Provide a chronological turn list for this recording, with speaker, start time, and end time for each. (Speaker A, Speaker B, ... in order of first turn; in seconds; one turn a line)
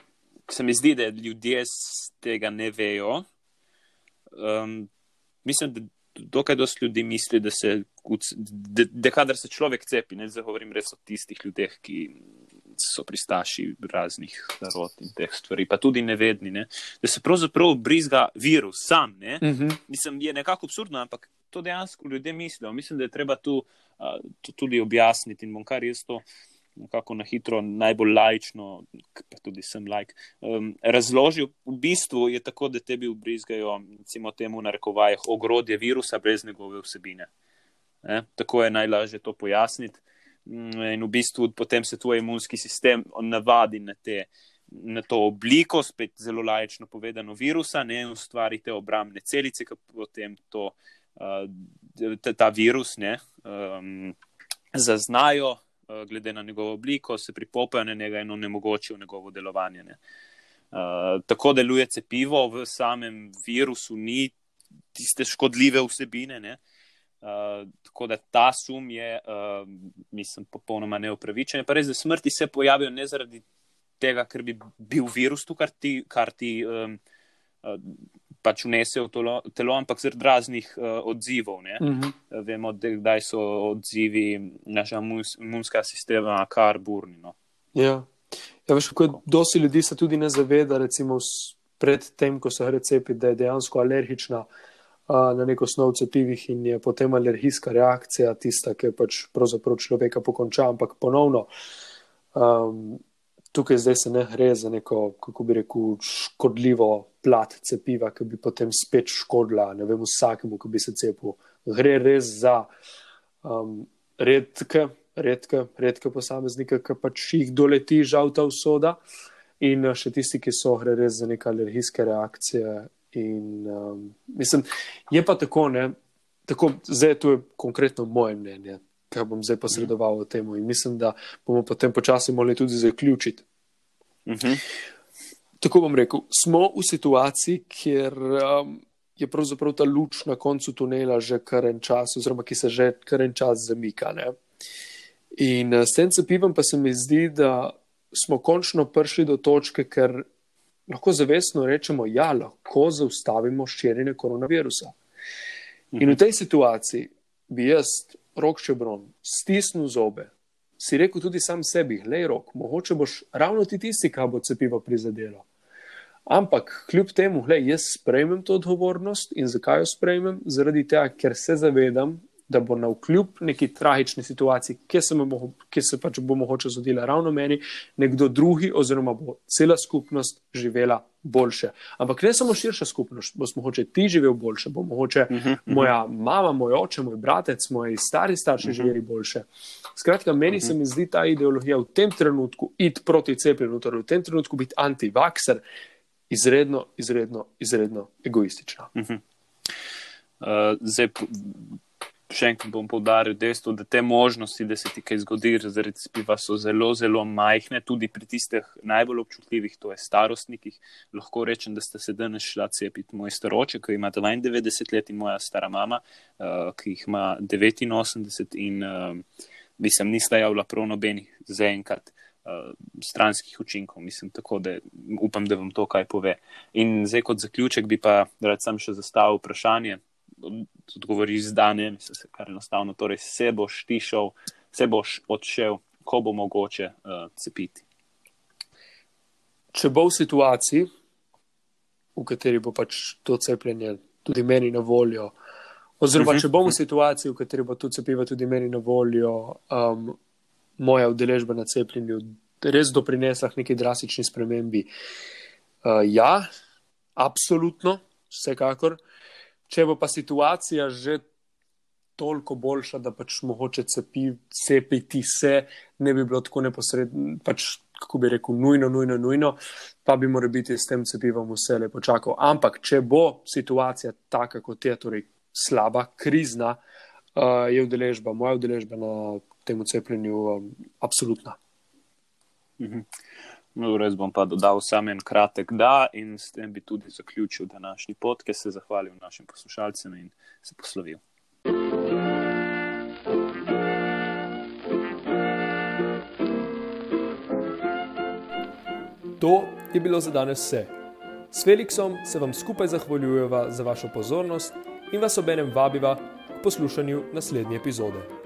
Speaker A: 0.5-3.2
Speaker A: 4.4-4.9
Speaker A: 5.5-12.2
Speaker A: 12.8-26.2
Speaker B: 19.4-19.8
Speaker A: 26.8-37.3
Speaker A: 38.0-54.2
Speaker A: 54.7-60.0
Speaker A: 60.7-64.3
Speaker A: 65.0-66.6
Speaker A: 67.2-73.4
Speaker A: 74.0-77.0
Speaker A: 77.6-87.3
Speaker B: 81.8-82.2
Speaker B: 87.8-88.1
Speaker B: 88.7-94.5
Speaker B: 95.1-101.5
Speaker B: 102.3-103.0
Speaker B: 103.5-112.7
Speaker B: 113.4-119.0
Speaker B: 119.6-125.9
Speaker B: 126.5-133.4
Speaker A: 134.3-134.6
Speaker B: 135.6-144.3
Speaker B: 145.4-150.3
Speaker B: 150.9-154.9
Speaker A: 155.9-156.2
Speaker B: 156.0-165.4
Speaker B: 166.3-189.4
Speaker A: 185.3-185.9
Speaker A: 188.6-188.9
Speaker B: 190.0-195.6
Speaker B: 196.3-198.9
Speaker A: 198.9-199.2
Speaker A: 200.4-201.8
Speaker A: 202.3-219.2
Speaker A: 219.8-237.8
Speaker B: 239.7-240.9
Speaker B: 242.2-245.3
Speaker B: 246.0-250.2
Speaker A: 246.2-246.7
Speaker B: 250.8-254.9
Speaker B: 255.8-256.5
Speaker B: 257.2-259.0
Speaker B: 259.7-261.2
Speaker B: 262.2-276.8
Speaker B: 277.4-281.6
Speaker A: 282.8-283.1
Speaker A: 283.8-291.2
Speaker B: 299.4-300.9
Speaker B: 301.5-308.3